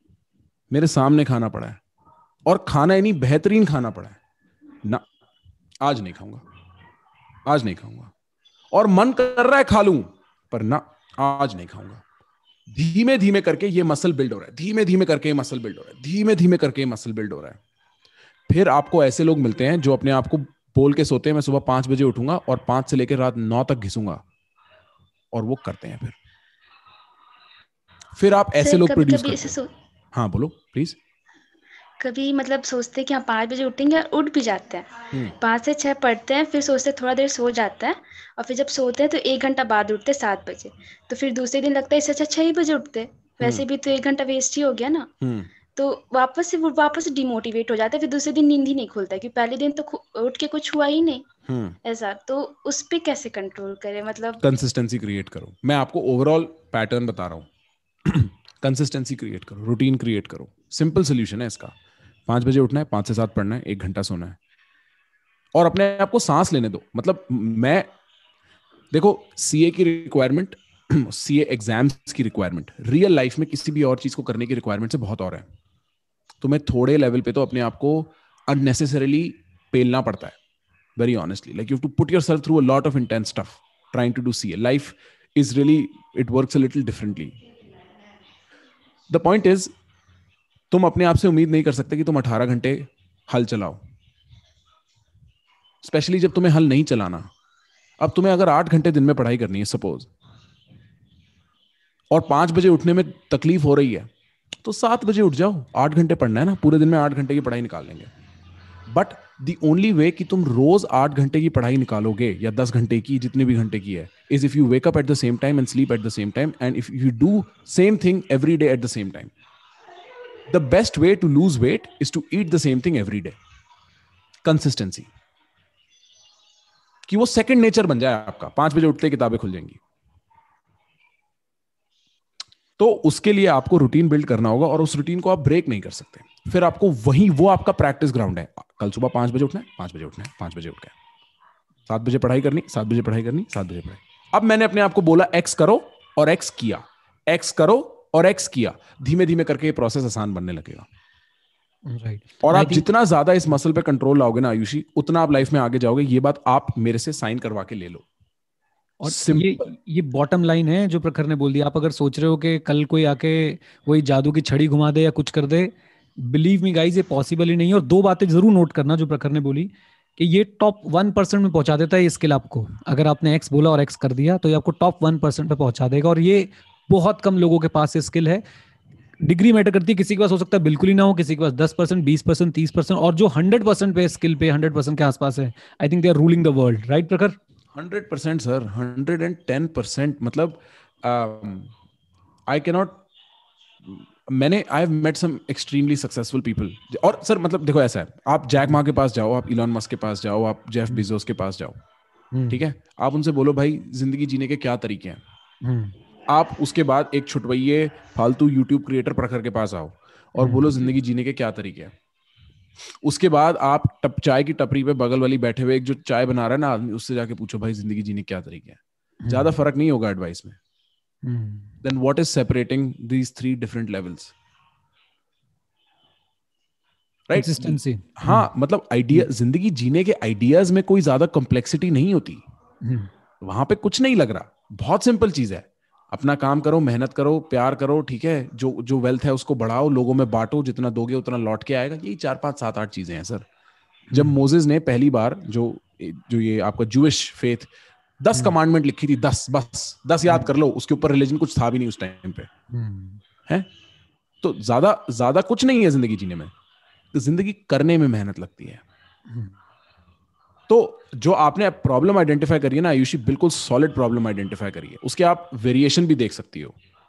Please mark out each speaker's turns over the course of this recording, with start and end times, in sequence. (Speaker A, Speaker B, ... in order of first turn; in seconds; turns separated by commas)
Speaker A: 0.7-1.8, Speaker A: 2.5-4.2, Speaker A: 5.8-6.4, Speaker A: 7.5-8.1, Speaker A: 8.7-12.0, Speaker A: 12.7-17.6, Speaker A: 18.5-24.2, Speaker A: 25.3-26.2, Speaker A: 28.1-29.6, Speaker B: 28.6-29.7, Speaker A: 30.1-31.0, Speaker B: 32.0-45.1, Speaker A: 45.2-45.5, Speaker B: 45.8-51.2, Speaker A: 51.5-51.8, Speaker B: 51.8-54.4, Speaker A: 54.4-57.5, Speaker A: 58.0-61.8, Speaker A: 62.3-64.4, Speaker A: 65.6-67.9, Speaker A: 68.9-75.5, Speaker A: 76.4-80.4, Speaker A: 81.0-87.4, Speaker A: 89.1-89.7, Speaker A: 90.7-93.8, Speaker A: 95.8-97.3, Speaker A: 98.0-100.1, Speaker A: 102.1-104.1, Speaker A: 104.6-108.1, Speaker A: 108.9-119.3, Speaker A: 120.5-123.4, Speaker A: 124.4-125.1, Speaker A: 127.1-129.8, Speaker A: 132.8-140.9, Speaker A: 141.9-150.9, Speaker C: 151.9-152.9, Speaker A: 152.4-158.1, Speaker C: 159.0-178.4, Speaker A: 159.1-159.5, Speaker C: 179.2-187.4, Speaker A: 187.7-191.7, Speaker A: 192.5-193.0, Speaker A: 193.8-201.8, Speaker C: 202.3-202.6, Speaker A: 202.5-205.2, Speaker C: 205.6-205.9, Speaker A: 206.3-211.9, Speaker C: 210.4-210.8, Speaker A: 213.0-220.6, Speaker C: 219.2-219.5, Speaker C: 221.2-221.8, Speaker A: 221.8-224.3, Speaker A: 227.3-232.4, Speaker C: 227.3-228.5, Speaker C: 232.8-233.1, Speaker A: 233.4-243.5, Speaker C: 244.1-244.3, Speaker A: 244.1-252.5, Speaker C: 252.7-253.2, Speaker A: 254.4-256.5, Speaker A: 257.1-258.8, Speaker C: 259.3-259.5, Speaker A: 260.7-266.8